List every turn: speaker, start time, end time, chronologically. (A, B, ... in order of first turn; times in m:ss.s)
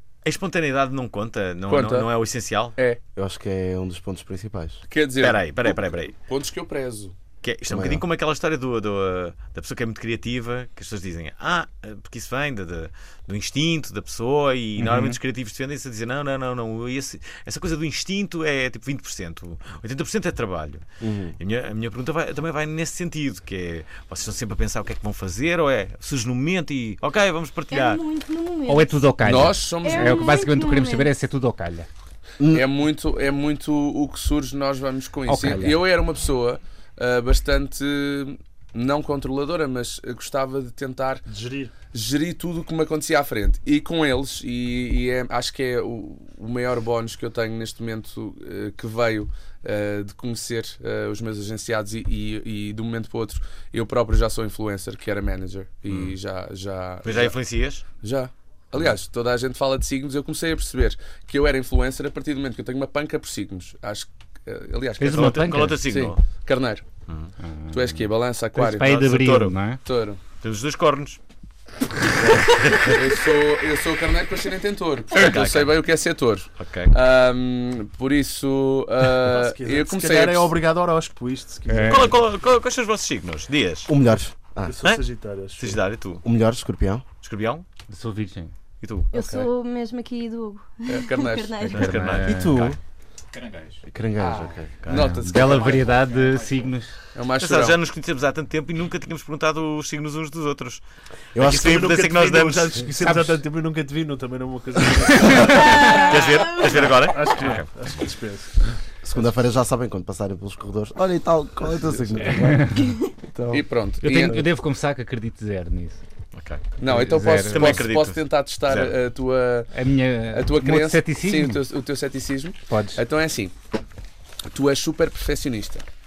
0:00.2-0:02.8 A
0:01.7-0:02.1 B
0:03.2-0:04.8 C
0:04.9-0:07.2 B
0:05.2-0:06.1 A
0:07.4-0:20.8 A
0:07.7-0:08.0 C
0:14.8-0:15.2 D
0:21.0-0:21.4 C
0:21.4-0:28.0 A
0:27.7-0:31.1 E
0:28.7-0:31.9 D
0:29.2-0:30.3 B
0:32.4-0:32.6 C
0:32.5-0:41.3 B
0:35.3-0:35.8 D
0:41.3-0:41.7 F
0:41.9-0:57.4 B
0:55.9-0:56.2 A
0:57.0-0:57.8 A
0:58.0-1:06.8 B
1:05.0-1:05.8 D
1:05.1-1:06.2 A
1:07.1-1:07.3 A
1:07.4-1:08.0 D
1:07.7-1:09.0 B
1:08.6-1:09.8 D
1:08.8-1:09.6 A
1:09.8-1:10.2 B
1:10.4-1:11.2 A
1:12.2-1:13.0 A
1:12.9-1:20.6 B
1:15.1-1:15.8 A
1:16.6-1:16.9 A
1:19.2-1:22.3 F
1:21.7-1:22.1 D
1:21.9-1:23.9 A
1:23.9-1:24.8 C
1:24.6-1:25.8 F
1:25.6-1:26.2 A
1:26.2-1:27.0 C
1:27.2-1:27.6 A
1:27.9-1:28.5 D
1:28.8-1:29.1 A
1:29.1-1:32.0 E
1:29.1-1:29.5 B
1:30.9-1:31.6 B
1:31.7-1:32.8 A
1:31.7-1:32.7 D
1:32.3-1:32.8 C
1:33.9-1:34.8 C
1:34.2-1:36.0 B
1:34.8-1:35.1 A
1:34.9-1:36.9 D
1:37.1-1:37.8 B
1:37.4-1:40.8 A
1:41.4-1:41.9 C
1:41.4-1:42.8 A
1:41.4-1:48.7 F
1:43.0-1:43.4 D
1:45.1-1:45.7 D
1:45.3-1:47.7 A
1:45.6-1:46.9 E
1:49.0-1:53.6 C
1:52.2-1:53.0 D
1:53.5-1:54.4 B
1:54.0-1:56.0 D
1:56.4-1:56.7 A
1:56.8-1:59.7 B
1:56.8-1:57.8 D
1:57.5-1:59.0 A
1:59.7-2:01.6 D
2:00.3-2:03.5 B
2:02.7-2:03.0 D
2:04.5-2:05.8 B